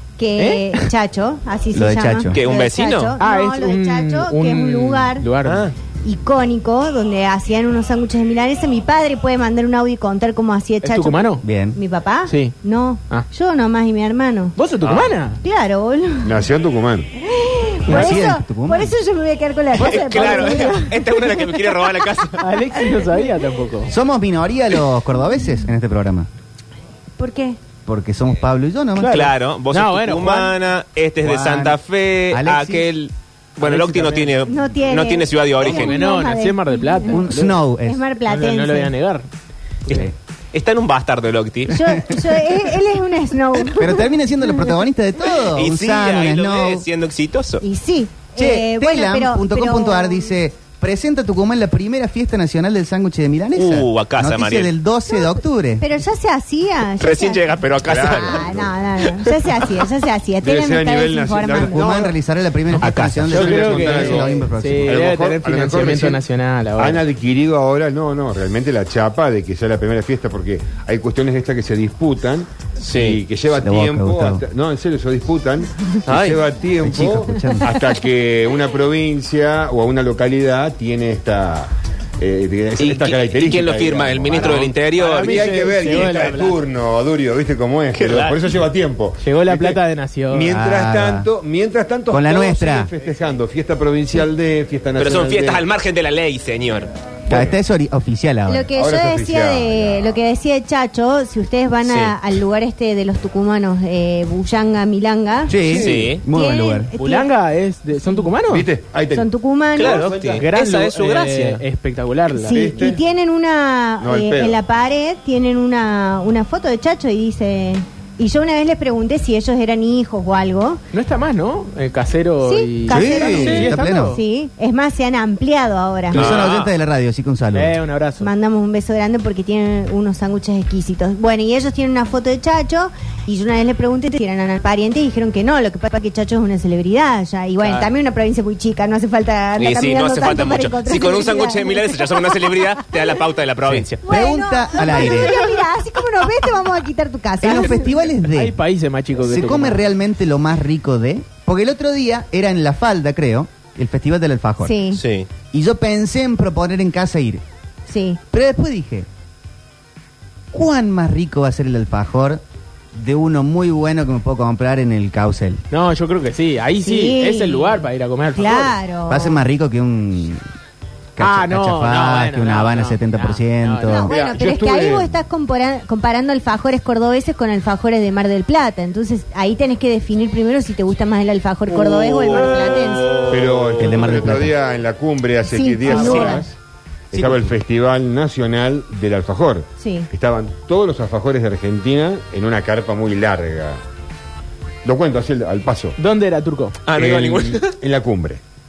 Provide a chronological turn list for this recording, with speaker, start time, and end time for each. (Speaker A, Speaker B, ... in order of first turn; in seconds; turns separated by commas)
Speaker A: 0.2-5.3, Speaker B: 0.4-0.9, Speaker C: 1.7-2.4, Speaker D: 2.3-3.2, Speaker B: 3.2-5.7, Speaker D: 5.4-5.8, Speaker A: 6.0-14.6, Speaker B: 10.8-11.4, Speaker C: 11.4-11.8, Speaker B: 12.3-12.6, Speaker B: 14.6-15.4, Speaker A: 15.4-16.4, Speaker E: 16.2-17.1, Speaker A: 17.2-22.1, Speaker C: 17.9-19.0, Speaker D: 19.7-22.4, Speaker B: 22.4-23.9, Speaker C: 23.9-26.3, Speaker A: 27.2-27.6, Speaker C: 27.9-29.2, Speaker B: 29.0-30.5, Speaker D: 29.1-36.0, Speaker C: 31.2-31.8, Speaker C: 32.3-32.9, Speaker B: 33.6-34.4, Speaker A: 34.5-37.2, Speaker B: 35.6-37.6, Speaker C: 37.1-38.0, Speaker A: 37.8-38.9, Speaker B: 38.3-39.3, Speaker D: 39.9-41.9, Speaker C: 39.9-40.1, Speaker A: 41.7-44.7, Speaker C: 41.7-42.0, Speaker C: 43.8-46.9, Speaker D: 45.5-47.6, Speaker A: 47.6-50.4, Speaker C: 48.4-55.9, Speaker D: 53.5-54.7, Speaker A: 55.8-57.5, Speaker D: 57.0-59.3, Speaker E: 57.8-58.8, Speaker A: 58.0-61.9, Speaker E: 60.4-62.1, Speaker C: 61.5-65.0, Speaker B: 62.8-67.0, Speaker D: 62.8-63.5, Speaker E: 63.3-66.2, Speaker E: 66.8-95.6, Speaker D: 72.8-73.2, Speaker C: 73.6-74.4, Speaker D: 76.1-76.4, Speaker C: 76.8-77.7, Speaker D: 82.8-86.1, Speaker B: 84.5-86.6, Speaker D: 87.9-88.4, Speaker B: 89.2-90.5, Speaker C: 90.5-91.3, Speaker C: 92.1-92.9, Speaker D: 95.0-96.9, Speaker C: 97.3-98.7, Speaker A: 98.5-105.6, Speaker E: 98.7-100.2, Speaker D: 101.9-102.2, Speaker C: 105.5-106.9, Speaker E: 105.6-106.2, Speaker D: 105.7-106.2, Speaker A: 106.3-107.3, Speaker B: 107.0-108.7, Speaker E: 108.5-110.5, Speaker A: 109.1-110.1, Speaker D: 109.8-111.6, Speaker B: 110.4-113.0, Speaker A: 112.4-120.8, Speaker E: 112.5-113.0, Speaker E: 114.0-114.6, Speaker B: 120.9-124.2, Speaker A: 122.4-126.4, Speaker C: 122.9-124.2, Speaker C: 126.1-127.8, Speaker D: 126.1-126.7, Speaker B: 127.5-128.3, Speaker A: 128.2-143.0, Speaker B: 137.6-137.9, Speaker D: 139.6-144.0, Speaker C: 143.7-145.4, Speaker A: 144.1-147.9, Speaker C: 147.4-148.6, Speaker B: 148.2-149.8, Speaker C: 149.2-154.8, Speaker A: 154.6-155.0, Speaker D: 154.9-155.3, Speaker C: 155.5-157.4, Speaker A: 157.9-158.2, Speaker C: 158.3-159.1, Speaker C: 160.5-162.4, Speaker C: 162.9-165.6, Speaker B: 165.7-168.8, Speaker A: 166.8-167.8, Speaker A: 168.3-169.4, Speaker C: 169.1-170.4, Speaker C: 171.2-174.1, Speaker B: 171.2-174.1, Speaker A: 173.9-183.3, Speaker E: 174.1-175.2, Speaker D: 181.7-184.3, Speaker E: 183.3-186.6, Speaker C: 183.8-184.6, Speaker A: 185.5-186.5, Speaker D: 185.9-186.3, Speaker E: 187.1-193.8, Speaker C: 187.1-187.5, Speaker A: 189.8-190.1, Speaker E: 194.8-195.9, Speaker B: 196.0-196.8, Speaker D: 196.9-197.8, Speaker E: 196.9-198.4